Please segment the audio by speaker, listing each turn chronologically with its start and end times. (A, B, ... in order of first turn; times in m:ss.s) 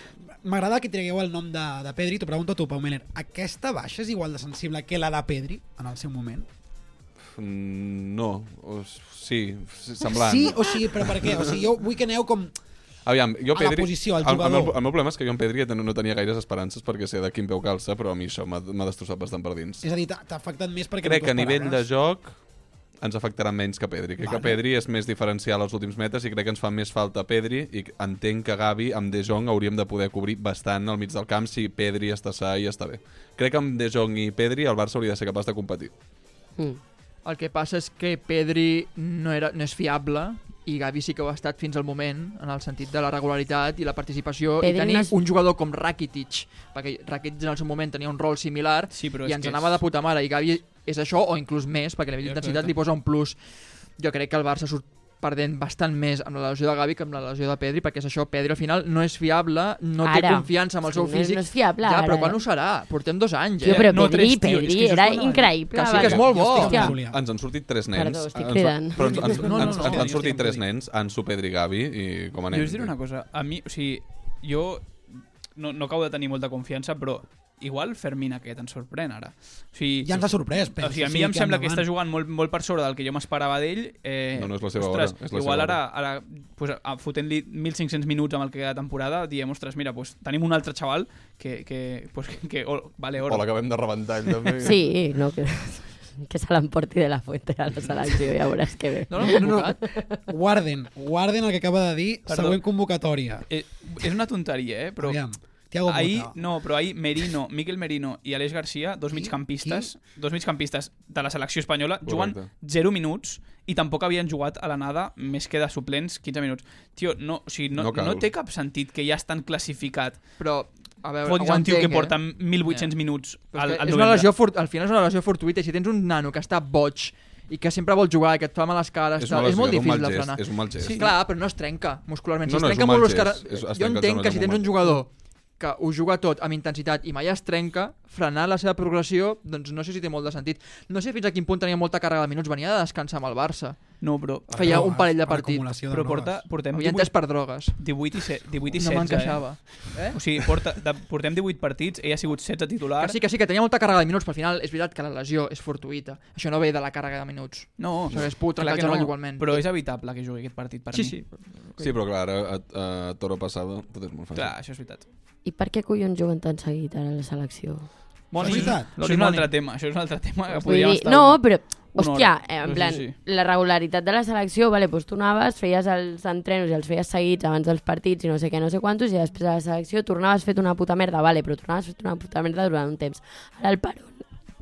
0:00.4-0:06.4 A
0:07.2-0:11.5 B
0:10.0-0:12.5 A
0:13.0-0:19.9 B
0:13.5-0:14.8 A
0:19.8-0:21.8 A
0:21.0-0:22.4 B
0:23.0-0:35.9 B
0:24.2-0:24.6 A
0:37.2-1:03.9 C
0:44.6-0:45.1 D
0:48.9-0:49.8 E
0:52.2-0:52.7 E
1:00.0-1:02.4 D
1:03.6-1:05.6 E
1:03.6-1:07.0 D
1:05.7-1:06.9 C
1:05.9-1:12.9 B
1:06.2-1:07.2 A
1:07.9-1:09.3 D
1:09.0-1:10.6 A
1:09.2-1:10.2 C
1:12.5-1:33.5 E
1:20.0-1:21.9 A
1:24.4-1:25.8 B
1:33.2-1:34.8 B
1:34.6-1:40.2 D
1:39.1-1:39.8 C
1:39.2-1:39.8 A
1:40.3-1:43.4 A
1:42.3-1:42.6 E
1:43.5-1:45.2 E
1:45.0-1:46.4 A
1:45.9-2:00.4 E
1:49.1-1:49.9 A
1:52.0-1:52.5 B
1:57.7-1:58.3 B
2:00.4-2:02.9 C
2:01.2-2:04.3 E
2:03.5-2:25.7 C
2:09.2-2:11.1 B
2:12.4-2:15.0 B
2:24.0-2:24.9 E
2:24.5-2:26.4 A
2:25.9-2:33.2 E
2:26.7-2:27.9 C
2:28.7-2:30.2 C
2:33.0-2:39.6 C
2:37.8-2:41.2 E
2:40.9-2:41.9 C
2:41.8-2:44.5 B
2:44.3-2:45.0 E
2:45.4-2:47.9 D
2:48.3-2:53.2 E
2:48.3-2:49.5 C
2:48.4-2:48.9 A
2:50.5-3:04.2 D